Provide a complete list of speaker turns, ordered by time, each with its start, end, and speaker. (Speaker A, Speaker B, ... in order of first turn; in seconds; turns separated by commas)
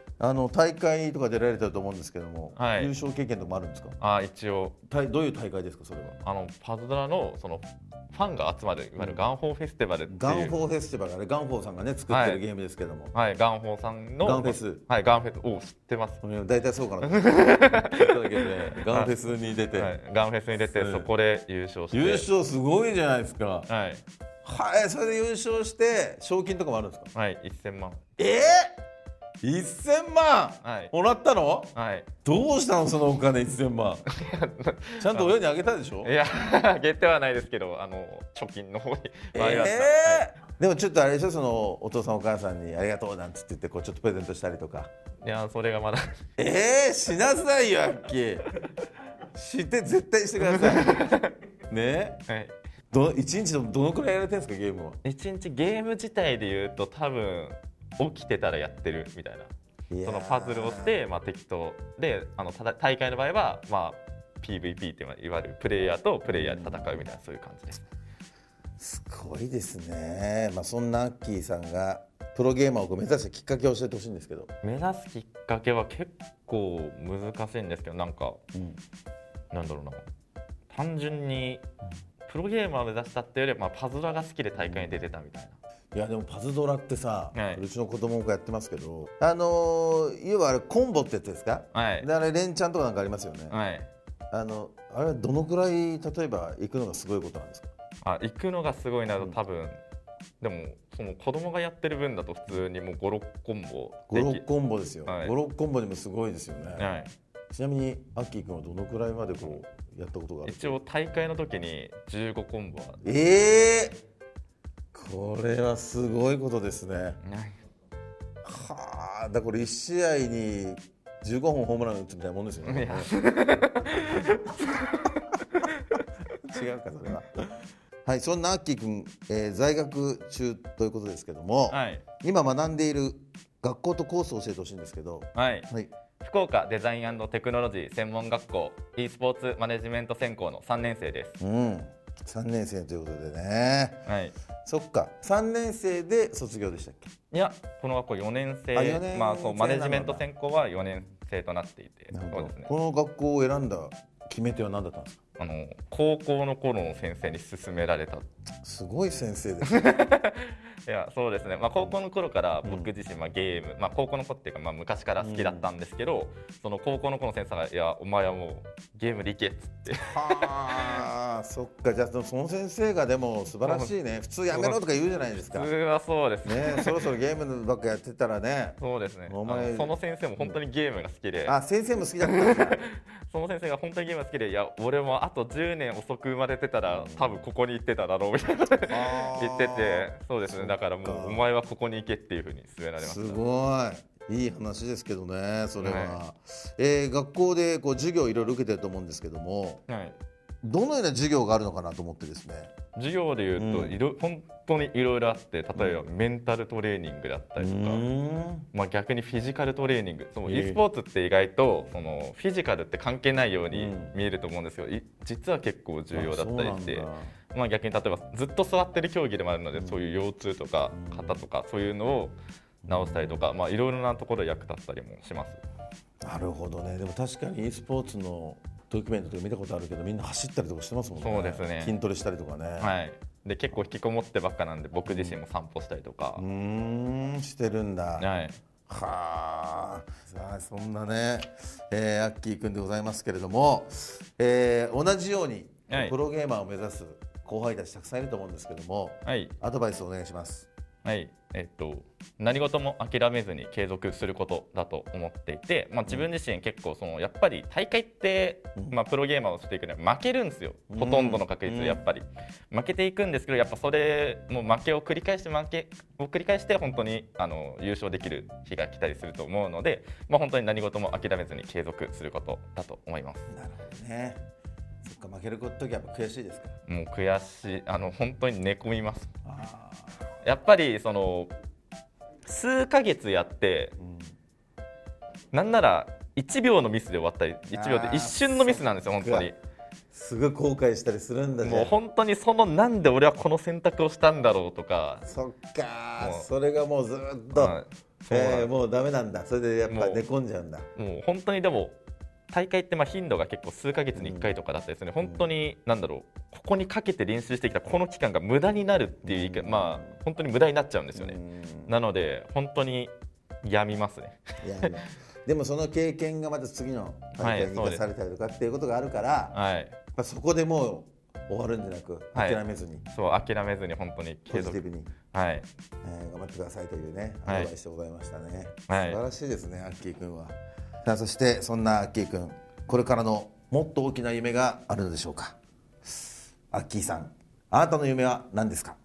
Speaker A: 0.2-4.0, Speaker B: 2.6-2.9, Speaker B: 4.0-4.8, Speaker A: 4.9-6.2, Speaker B: 6.2-10.5, Speaker A: 9.0-9.2, Speaker A: 10.1-13.1, Speaker B: 12.1-12.4, Speaker B: 13.1-16.2, Speaker A: 14.2-14.8, Speaker A: 16.2-20.0, Speaker B: 17.1-18.1, Speaker B: 18.9-19.2, Speaker B: 19.7-22.3, Speaker A: 20.6-21.1, Speaker A: 21.9-23.7, Speaker B: 23.7-24.0, Speaker A: 24.4-27.1, Speaker B: 27.1-28.0, Speaker A: 28.2-28.8, Speaker A: 29.4-31.7, Speaker B: 30.6-30.9, Speaker B: 31.7-32.1, Speaker A: 32.2-34.0, Speaker B: 34.1-35.4, Speaker A: 35.0-36.1, Speaker B: 36.0-40.4, Speaker A: 39.3-44.9, Speaker B: 45.2-46.2, Speaker A: 46.4-48.5, Speaker A: 49.3-51.0, Speaker B: 50.4-51.3, Speaker A: 51.7-52.2, Speaker B: 52.3-52.5, Speaker A: 52.9-55.0, Speaker B: 55.0-59.5, Speaker A: 59.9-61.0, Speaker B: 60.0-67.8, Speaker A: 66.3-67.0, Speaker A: 68.8-74.5, Speaker B: 74.6-78.4, Speaker B: 79.5-80.0, Speaker B: 80.7-81.6, Speaker B: 82.3-85.6, Speaker A: 84.6-84.9, Speaker A: 85.9-93.6, Speaker B: 87.3-87.6, Speaker B: 91.7-92.1, Speaker B: 93.5-93.9, Speaker A: 94.3-97.7, Speaker B: 98.0-99.8, Speaker B: 100.4-104.5, Speaker A: 104.1-106.9, Speaker B: 105.1-105.3, Speaker B: 106.8-107.1, Speaker A: 107.5-110.8, Speaker B: 110.4-113.0, Speaker A: 113.0-114.0, Speaker A: 114.9-117.2, Speaker B: 117.2-117.6, Speaker A: 118.4-123.1, Speaker B: 122.7-126.0, Speaker A: 126.4-127.5, Speaker A: 128.1-135.9, Speaker B: 131.7-132.0, Speaker B: 135.3-135.7, Speaker B: 136.2-141.4, Speaker A: 141.4-144.0, Speaker B: 144.1-144.3, Speaker A: 144.7-147.1, Speaker B: 147.3-152.7, Speaker A: 148.7-150.3, Speaker A: 152.1-155.2, Speaker B: 155.4-158.3, Speaker A: 158.6-159.8, Speaker B: 159.7-171.1, Speaker A: 162.6-162.9, Speaker A: 165.2-165.7, Speaker A: 169.9-175.7, Speaker B: 173.6-173.9, Speaker B: 174.5-177.1, Speaker A: 176.4-180.6, Speaker B: 178.8-181.6, Speaker A: 181.4-182.8, Speaker B: 182.2-193.4, Speaker A: 186.9-187.4, Speaker A: 188.9-191.4, Speaker A: 193.0-199.8, Speaker B: 195.8-196.2, Speaker B: 199.9-200.2, Speaker A: 200.6-202.7, Speaker B: 203.0-208.1, Speaker A: 203.6-203.9, Speaker A: 205.8-206.1, Speaker A: 207.6-208.7, Speaker B: 208.7-225.6, Speaker A: 210.4-210.8, Speaker A: 213.7-214.2, Speaker A: 216.1-217.3, Speaker A: 219.8-220.0, Speaker A: 220.9-221.4, Speaker A: 222.8-223.4, Speaker A: 226.2-233.0, Speaker B: 231.2-232.0, Speaker B: 232.8-236.4, Speaker A: 235.1-235.4, Speaker A: 236.4-238.3, Speaker B: 238.2-238.6, Speaker A: 238.9-250.7, Speaker B: 245.9-246.2, Speaker B: 249.2-249.6, Speaker B: 251.1-273.5, Speaker A: 260.9-262.0, Speaker A: 273.5-274.4, Speaker A: 275.0-276.8, Speaker B: 276.9-279.3, Speaker A: 279.5-280.2, Speaker B: 280.4-281.5, Speaker B: 282.5-283.9, Speaker A: 284.0-284.3, Speaker B: 285.5-289.6, Speaker A: 287.7-289.5, Speaker A: 290.1-291.9, Speaker B: 291.6-295.2, Speaker A: 295.2-297.8, Speaker B: 296.2-296.5, Speaker B: 297.5-298.7, Speaker A: 298.3-300.9, Speaker B: 299.9-300.3, Speaker B: 301.0-302.0, Speaker B: 302.5-313.1, Speaker A: 304.1-304.5, Speaker A: 305.2-305.5, Speaker A: 309.2-310.2, Speaker A: 311.1-312.0, Speaker B: 313.6-314.9, Speaker A: 314.6-319.6, Speaker B: 317.4-318.1, Speaker B: 319.5-320.0, Speaker A: 320.1-323.1, Speaker B: 322.4-322.6, Speaker B: 323.1-325.7, Speaker A: 324.5-325.1, Speaker A: 326.0-335.6, Speaker B: 327.5-327.7, Speaker B: 328.9-329.2, Speaker A: 336.7-339.0